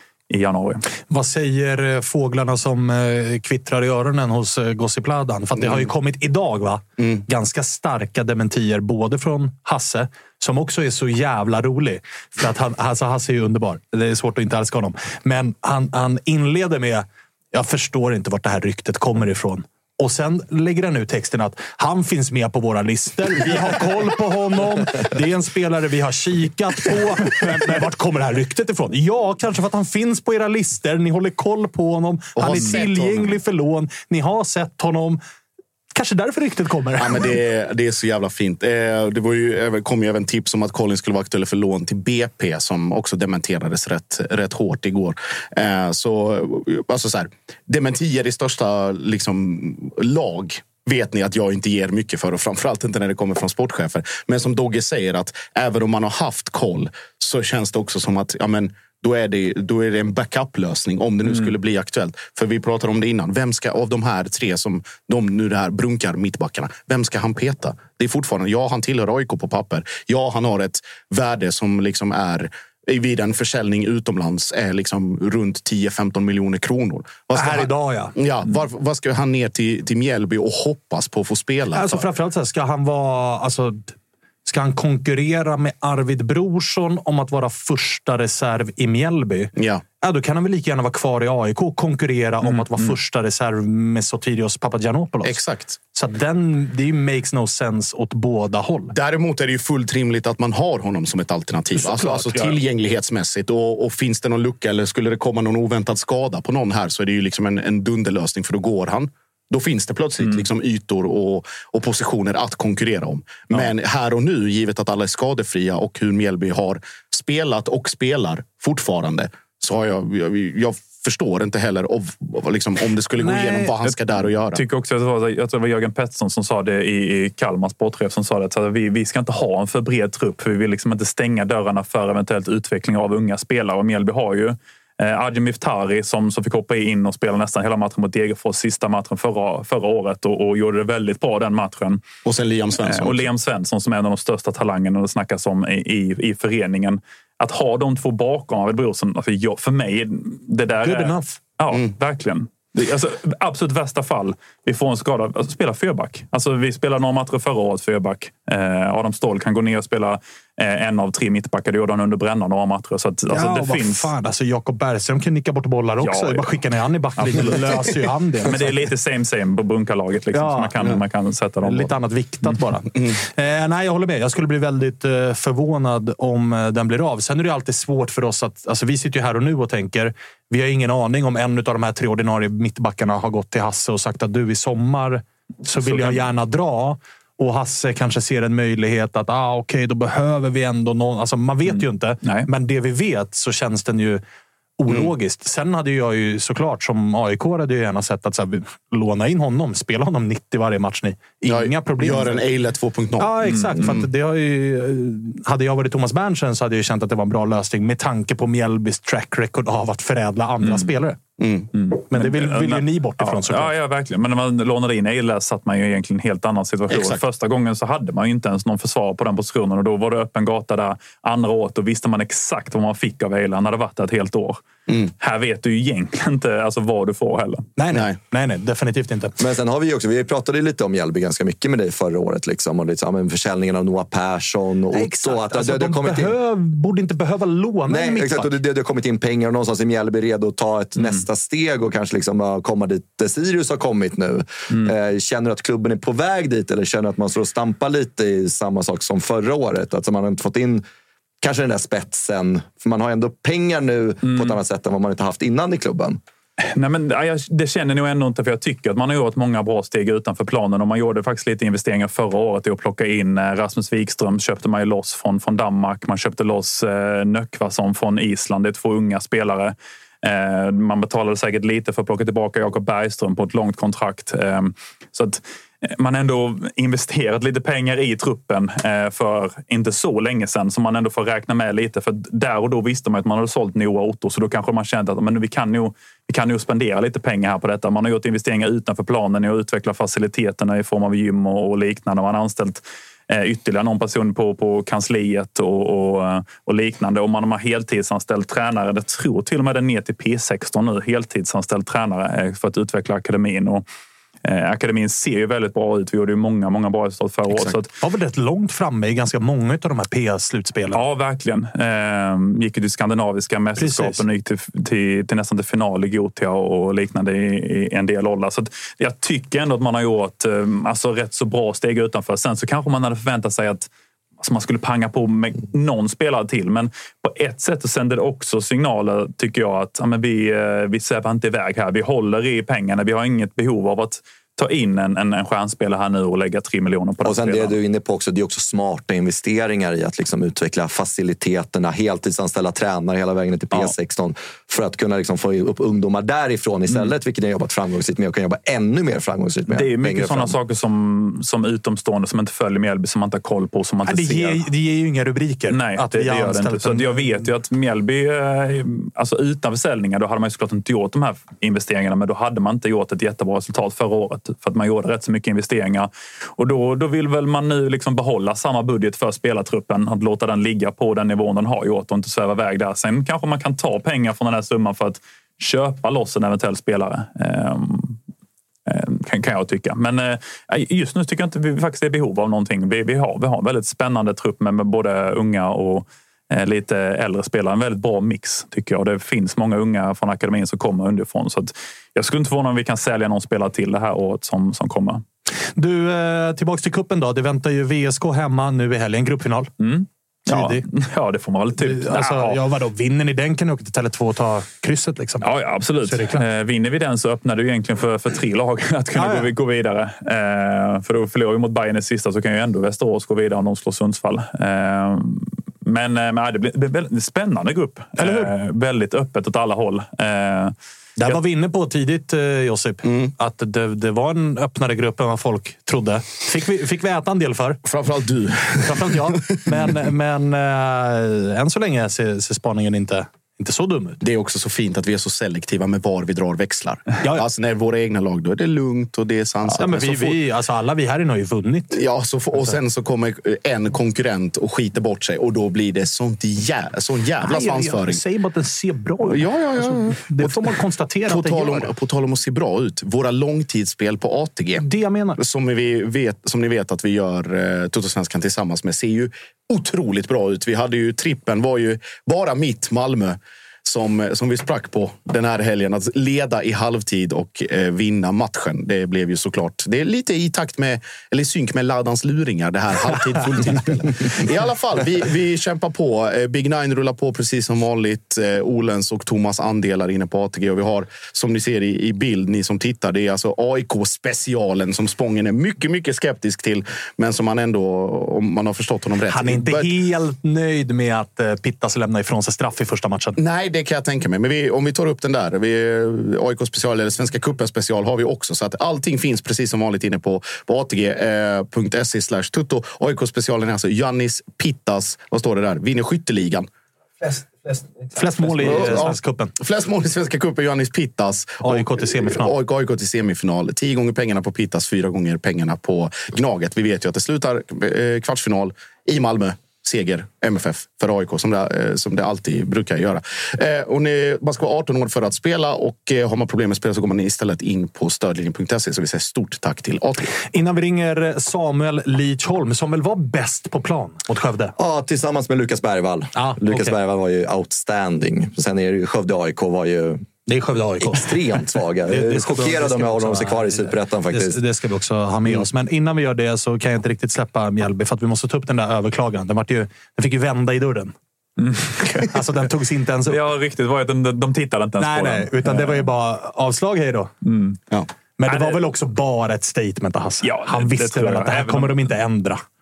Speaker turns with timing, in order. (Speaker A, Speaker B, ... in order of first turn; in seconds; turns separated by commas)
Speaker A: 0.3-0.8, Speaker B: 1.1-35.2, Speaker C: 5.6-5.8, Speaker C: 7.0-7.2, Speaker C: 32.4-33.4, Speaker B: 35.9-37.3, Speaker C: 37.0-82.1, Speaker B: 77.3-78.2, Speaker B: 81.7-83.9, Speaker B: 84.5-95.4, Speaker C: 89.6-89.8, Speaker A: 92.4-93.0, Speaker C: 95.2-95.8, Speaker B: 95.9-98.9, Speaker C: 98.9-124.6, Speaker B: 101.8-102.6, Speaker A: 110.2-110.5, Speaker B: 123.2-123.8, Speaker A: 124.5-142.0, Speaker C: 142.2-143.3, Speaker A: 142.8-164.1, Speaker B: 150.8-151.4, Speaker B: 163.3-168.7, Speaker A: 166.0-166.5, Speaker A: 167.2-167.9, Speaker A: 168.4-171.9, Speaker B: 170.3-170.7, Speaker B: 171.6-194.2, Speaker C: 172.9-173.2, Speaker A: 185.8-186.2, Speaker A: 191.7-192.5, Speaker B: 194.8-202.4, Speaker C: 201.5-204.1, Speaker B: 203.2-211.2, Speaker A: 203.4-203.8, Speaker A: 210.6-210.9, Speaker C: 211.4-211.7, Speaker A: 211.7-224.6, Speaker B: 212.1-213.7, Speaker C: 216.9-217.2, Speaker A: 225.2-227.7, Speaker B: 227.8-229.4, Speaker D: 229.4-236.4, Speaker B: 234.9-238.5, Speaker D: 237.9-250.8, Speaker A: 241.0-241.2, Speaker D: 251.4-256.2, Speaker A: 254.2-254.6, Speaker A: 256.8-303.8, Speaker A: 304.4-307.9, Speaker C: 307.5-307.8, Speaker B: 308.0-311.0, Speaker A: 310.9-323.9, Speaker B: 313.8-314.2, Speaker A: 324.4-337.8, Speaker D: 337.2-350.6, Speaker A: 349.7-354.6, Speaker B: 354.1-357.5, Speaker A: 355.7-378.2, Speaker A: 378.9-395.2, Speaker B: 395.8-399.7, Speaker A: 399.8-402.6, Speaker B: 400.5-400.8, Speaker B: 401.8-405.5, Speaker A: 405.4-420.8, Speaker B: 406.0-406.4, Speaker B: 409.1-409.5, Speaker B: 418.2-418.5, Speaker B: 421.2-427.8, Speaker C: 423.0-423.3, Speaker C: 427.9-429.9, Speaker B: 428.8-434.2, Speaker C: 434.2-440.4, Speaker B: 439.8-442.0, Speaker C: 441.9-448.2, Speaker B: 447.4-451.9, Speaker C: 449.3-450.8, Speaker C: 451.3-454.9, Speaker B: 454.8-455.4, Speaker C: 455.4-489.9, Speaker B: 489.3-493.4, Speaker C: 493.4-506.7, Speaker B: 508.1-509.5, Speaker C: 508.5-530.3, Speaker B: 511.6-512.5, Speaker B: 530.5-534.8, Speaker D: 534.8-540.2, Speaker B: 536.4-537.0, Speaker B: 540.5-541.4, Speaker D: 541.0-544.6, Speaker B: 542.1-551.1, Speaker A: 551.6-552.4, Speaker B: 552.3-553.4, Speaker A: 553.3-556.1, Speaker B: 555.0-557.3, Speaker A: 557.4-557.8, Speaker B: 558.4-562.6, Speaker A: 558.5-558.9, Speaker A: 560.4-562.1